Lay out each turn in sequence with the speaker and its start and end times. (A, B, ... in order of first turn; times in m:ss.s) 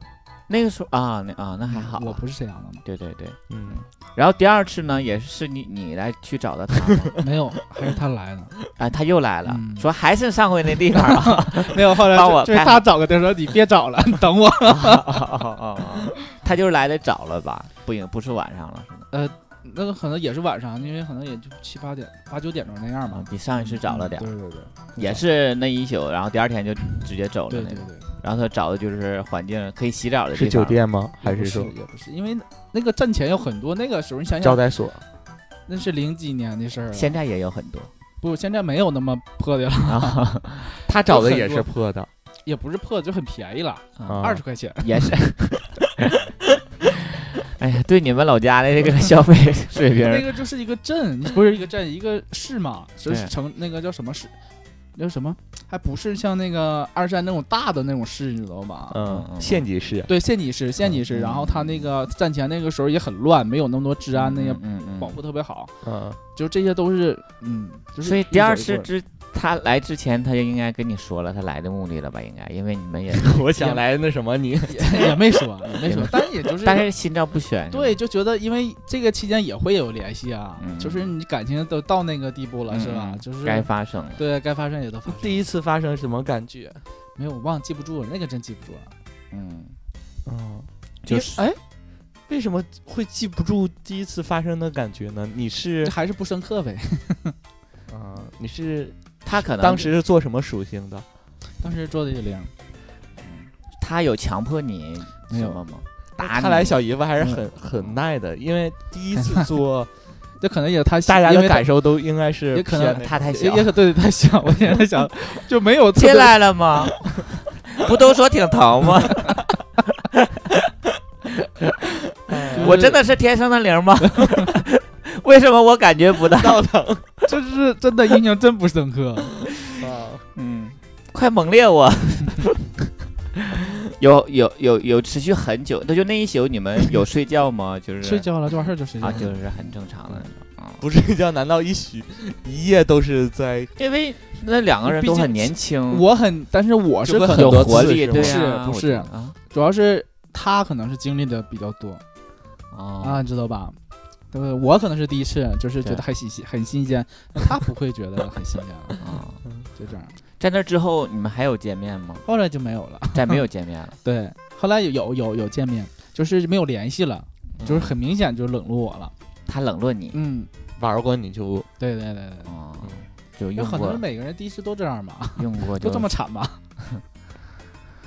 0:00.5-0:02.2 A
0:01.7-0:02.8 B
0:02.8-0:07.2 A
0:03.5-0:03.8 C
0:07.2-0:08.5 B
0:08.8-0:12.8 A
0:09.4-0:09.9 B
0:11.0-0:15.2 B
0:14.7-0:19.1 A
0:19.1-0:24.9 B
0:23.1-0:24.3 A
0:24.9-0:30.8 A
0:27.5-0:28.1 B
0:30.3-0:31.7 C
0:31.2-0:34.6 B
0:34.4-0:35.0 C
0:35.7-0:37.1 B
0:36.9-0:37.9 A
0:38.2-0:41.7 B
0:39.8-0:40.7 A
0:40.9-0:42.1 C
0:42.4-0:45.1 B
0:44.0-0:44.3 A
0:44.0-0:44.4 C
0:44.8-0:46.2 A
0:47.4-0:50.3 A
0:50.0-0:54.3 B
0:54.9-0:59.0 B
0:58.9-1:00.1 C
0:59.0-0:59.6 A
1:00.1-1:05.7 B
1:00.8-1:01.9 A
1:04.1-1:05.2 A
1:05.8-1:06.2 C
1:06.3-1:08.9 B
1:08.0-1:13.8 A
1:13.1-1:14.9 C
1:14.7-1:16.8 B
1:16.6-1:18.0 A
1:17.7-1:25.4 B
1:20.6-1:21.1 A
1:22.7-1:24.2 A
1:25.1-1:26.8 C
1:27.2-1:28.9 B
1:29.3-1:29.7 A
1:30.2-1:31.6 C
1:31.0-1:31.4 A
1:32.3-1:35.9 C
1:35.8-1:37.3 B
1:37.9-1:41.0 C
1:39.2-1:39.9 A
1:41.6-1:42.5 B
1:43.2-1:48.0 A
1:45.3-1:45.6 B
1:46.2-1:49.9 C
1:50.4-1:51.7 B
1:51.0-1:53.2 C
1:52.5-1:56.4 B
1:52.8-1:53.7 A
1:56.0-2:00.6 A
2:02.3-2:02.9 C
2:02.5-2:06.6 A
2:02.5-2:03.0 B
2:04.2-2:04.4 B
2:06.3-2:07.3 C
2:07.2-2:09.3 B
2:09.8-2:10.2 C
2:10.3-2:12.7 A
2:13.9-2:18.2 A
2:18.0-2:19.3 B
2:19.0-2:20.8 A
2:20.8-2:23.7 C
2:23.8-2:26.0 A
2:24.8-2:32.0 B
2:27.0-2:28.4 C
2:27.4-2:29.4 A
2:32.7-2:33.2 A
2:33.0-2:33.8 B
2:34.3-2:39.0 B
2:39.0-2:39.4 A
2:39.8-2:40.1 B
2:40.4-2:42.2 A
2:42.2-2:43.4 B
2:43.1-2:44.0 A
2:44.0-2:49.1 B
2:47.6-2:47.9 C
2:49.5-2:50.2 A
2:50.1-2:50.5 B
2:50.8-2:51.7 C
2:51.8-2:52.5 B
2:52.4-2:54.0 A
2:53.6-2:56.6 B
2:55.4-2:56.1 A